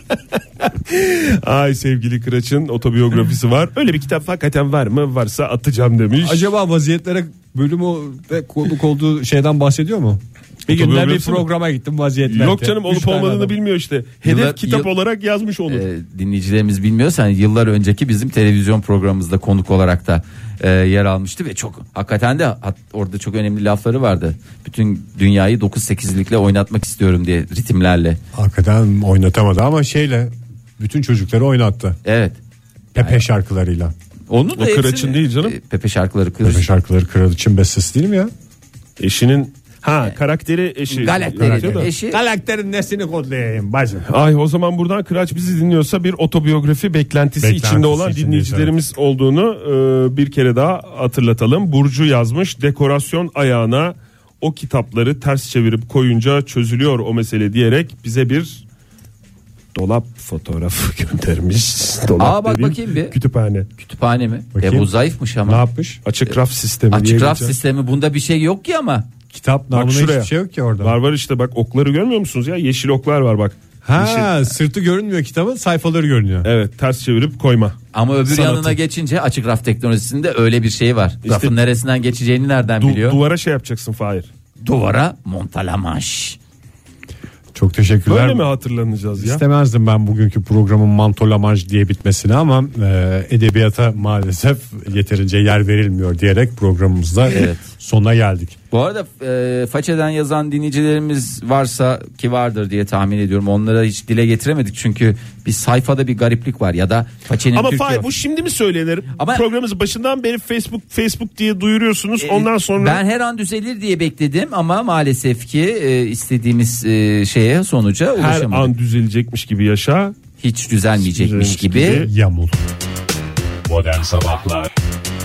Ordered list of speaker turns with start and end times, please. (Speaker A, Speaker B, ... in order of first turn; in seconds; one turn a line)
Speaker A: 0.8-6.5
Speaker B: 6.2-13.6
Speaker A: 10.7-11.5
Speaker A: 12.3-15.8
Speaker C: 14.2-14.9
Speaker C: 15.7-28.2
Speaker B: 28.3-32.0
Speaker C: 32.0-32.4
Speaker B: 33.0-33.9
Speaker C: 33.0-33.2
Speaker C: 34.3-36.7
Speaker A: 34.6-35.5
Speaker B: 36.4-38.3
Speaker A: 39.0-41.9
Speaker C: 40.9-42.2
Speaker B: 41.4-44.1
Speaker A: 44.1-58.6
Speaker B: 47.4-48.7
Speaker A: 59.7-63.7
Speaker C: 62.2-63.2
Speaker C: 63.8-65.6
Speaker B: 64.5-64.9
Speaker B: 65.5-66.0
Speaker A: 66.0-67.6
Speaker C: 66.9-69.1
Speaker B: 69.3-71.0
Speaker A: 69.7-70.3
Speaker A: 70.8-74.3
Speaker B: 73.8-76.5
Speaker A: 76.4-78.8
Speaker C: 77.9-83.2
Speaker A: 81.3-81.5
Speaker A: 82.8-84.3
Speaker C: 84.6-86.4
Speaker B: 87.5-88.4
Speaker A: 88.1-89.4
Speaker B: 89.2-98.6
Speaker C: 97.3-97.7
Speaker C: 98.7-108.1
Speaker A: 107.5-113.0
Speaker C: 109.2-109.4
Speaker C: 112.2-118.7
Speaker A: 118.2-120.2
Speaker C: 120.4-122.1
Speaker A: 121.0-122.1
Speaker B: 122.0-122.6
Speaker B: 123.7-124.7